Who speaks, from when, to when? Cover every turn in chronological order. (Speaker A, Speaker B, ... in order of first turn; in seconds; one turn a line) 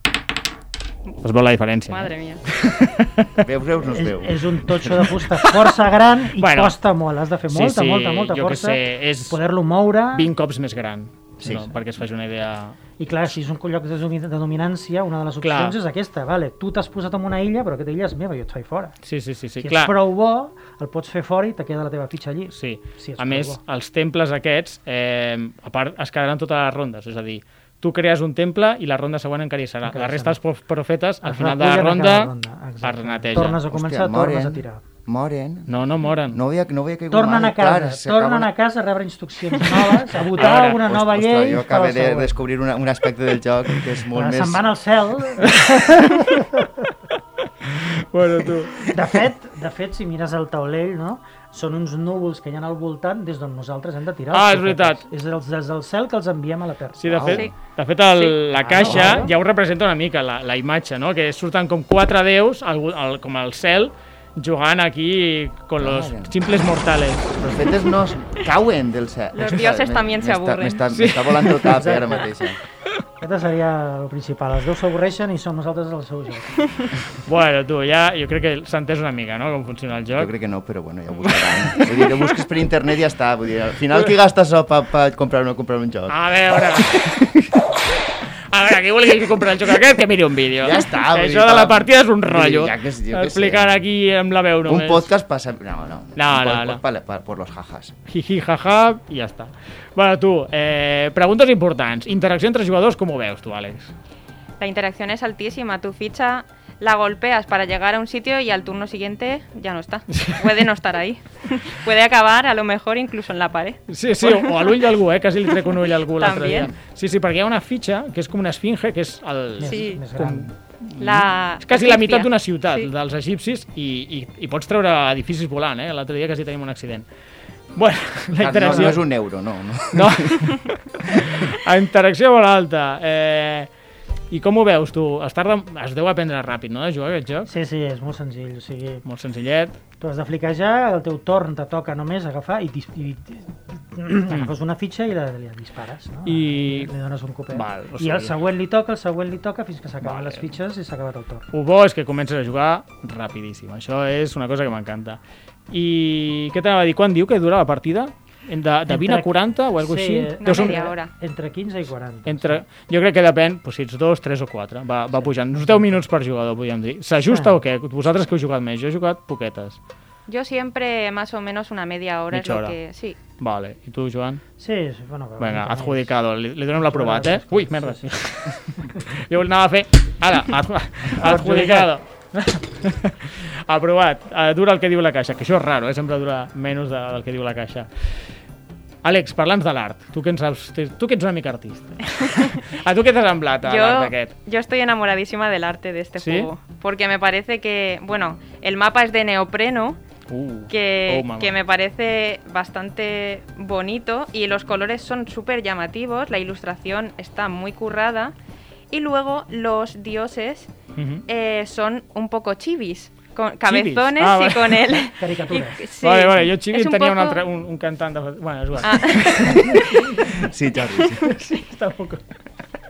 Speaker A: 1.2-3.4
Speaker B: 1.9-2.4
Speaker C: 3.4-4.4
Speaker D: 3.9-10.3
Speaker A: 4.9-5.5
Speaker A: 6.4-6.8
Speaker A: 7.5-9.4
Speaker A: 10.1-12.8
Speaker D: 11.4-11.8
Speaker D: 13.0-19.0
Speaker A: 15.4-15.8
Speaker A: 19.0-19.9
Speaker D: 19.6-23.6
Speaker A: 22.5-33.6
Speaker D: 29.8-30.4
Speaker D: 31.2-34.8
Speaker C: 33.7-35.7
Speaker A: 35.7-36.4
Speaker C: 36.3-38.5
Speaker D: 37.1-42.3
Speaker A: 39.6-40.8
Speaker C: 40.4-44.7
Speaker D: 44.1-46.7
Speaker A: 45.5-46.5
Speaker A: 47.6-48.9
Speaker D: 48.9-57.4
Speaker A: 54.3-55.0
Speaker A: 57.0-67.4
Speaker B: 57.2-57.5
Speaker D: 58.5-59.4
Speaker C: 58.8-59.2
Speaker C: 65.8-66.4
Speaker C: 67.4-72.6
Speaker B: 69.3-70.8
Speaker A: 70.9-71.9
Speaker D: 71.7-72.3
Speaker D: 73.2-76.8
Speaker A: 77.2-80.3
Speaker C: 80.2-86.2
Speaker A: 81.2-82.1
Speaker A: 86.1-95.1
Speaker C: 90.6-93.7
Speaker C: 94.7-97.9
Speaker A: 96.2-96.8
Speaker A: 98.1-103.9
Speaker B: 104.6-114.9
Speaker A: 110.1-110.7
Speaker A: 113.9-127.1
Speaker B: 115.5-116.7
Speaker D: 119.6-120.5
Speaker B: 119.6-120.0
Speaker B: 121.0-122.9
Speaker A: 127.8-129.1
Speaker C: 128.4-130.5
Speaker D: 128.6-128.9
Speaker A: 129.9-133.7
Speaker A: 134.3-137.5
Speaker D: 137.4-139.1
Speaker A: 139.1-139.8
Speaker D: 140.0-151.5
Speaker A: 146.3-146.9
Speaker A: 147.5-148.3
Speaker A: 150.0-150.5
Speaker A: 151.5-160.8
Speaker D: 158.9-162.6
Speaker B: 160.4-161.1
Speaker A: 162.2-169.8
Speaker D: 165.1-166.0
Speaker D: 167.3-167.6
Speaker B: 170.3-173.2
Speaker A: 172.3-172.8
Speaker A: 173.4-174.4
Speaker D: 174.6-176.1
Speaker A: 175.4-187.9
Speaker D: 176.8-178.2
Speaker D: 178.7-179.0
Speaker D: 181.2-181.9
Speaker A: 189.0-194.3
Speaker B: 192.2-192.7
Speaker B: 193.6-200.0
Speaker A: 196.2-196.5
Speaker A: 200.3-201.6
Speaker B: 200.7-208.3
Speaker B: 208.9-210.7
Speaker A: 211.0-211.2
Speaker B: 211.3-217.4
Speaker A: 213.6-215.1
Speaker D: 215.2-215.9
Speaker A: 216.0-220.3
Speaker B: 218.8-220.4
Speaker C: 220.3-221.4
Speaker A: 221.2-222.2